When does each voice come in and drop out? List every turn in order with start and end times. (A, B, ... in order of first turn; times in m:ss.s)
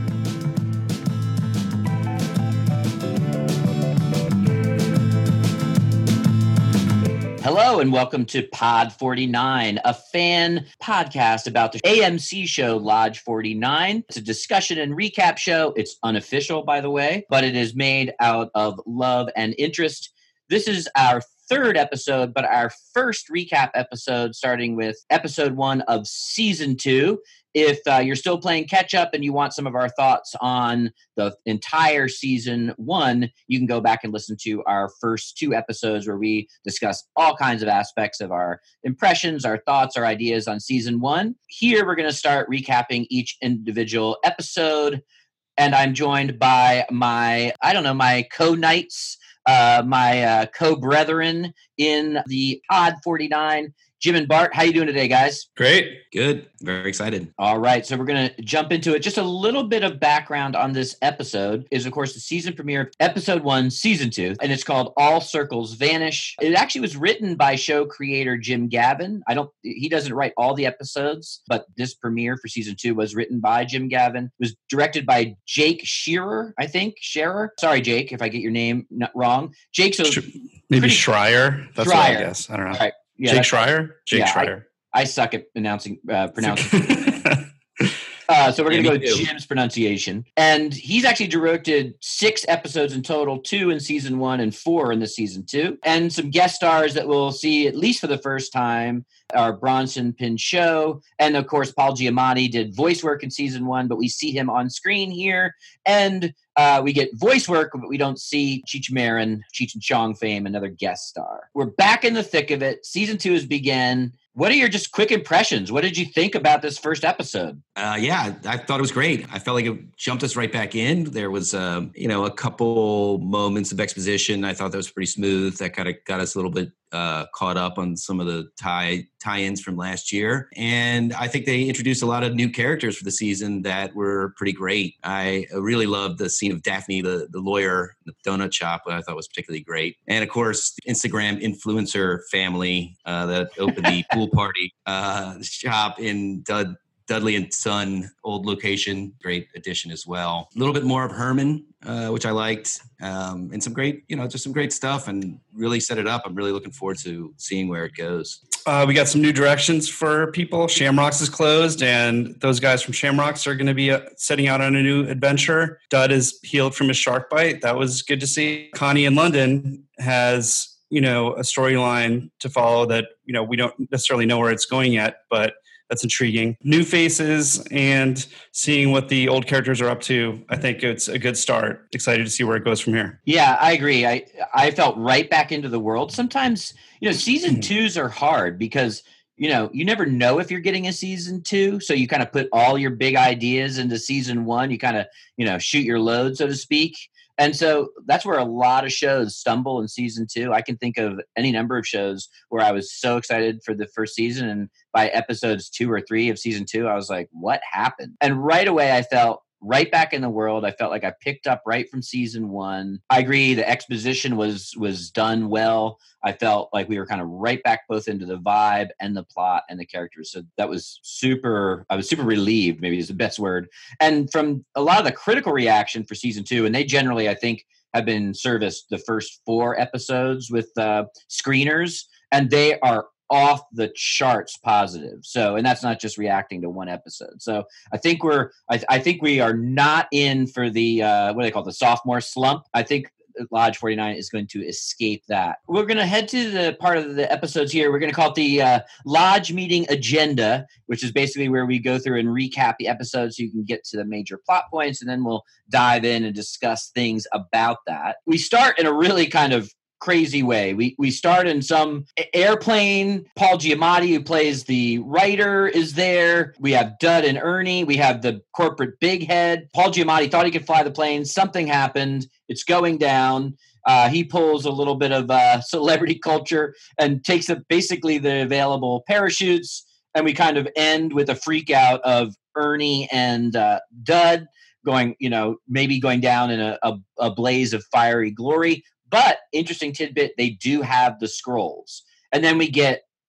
0:07.4-0:45.0 A
0:45.6-0:55.5 A
0:55.6-0:56.0 B
0:56.1-0:57.3 C
0:57.4-1:20.2 A
1:20.0-1:24.6 B
1:20.8-1:21.0 A
1:21.8-1:23.6 A
1:24.1-1:27.1 A
1:26.4-1:27.9 B
1:28.3-1:57.6 A
1:28.7-1:29.2 C
1:57.8-2:38.4 C
2:38.7-3:03.2 B
3:03.2-4:53.0 A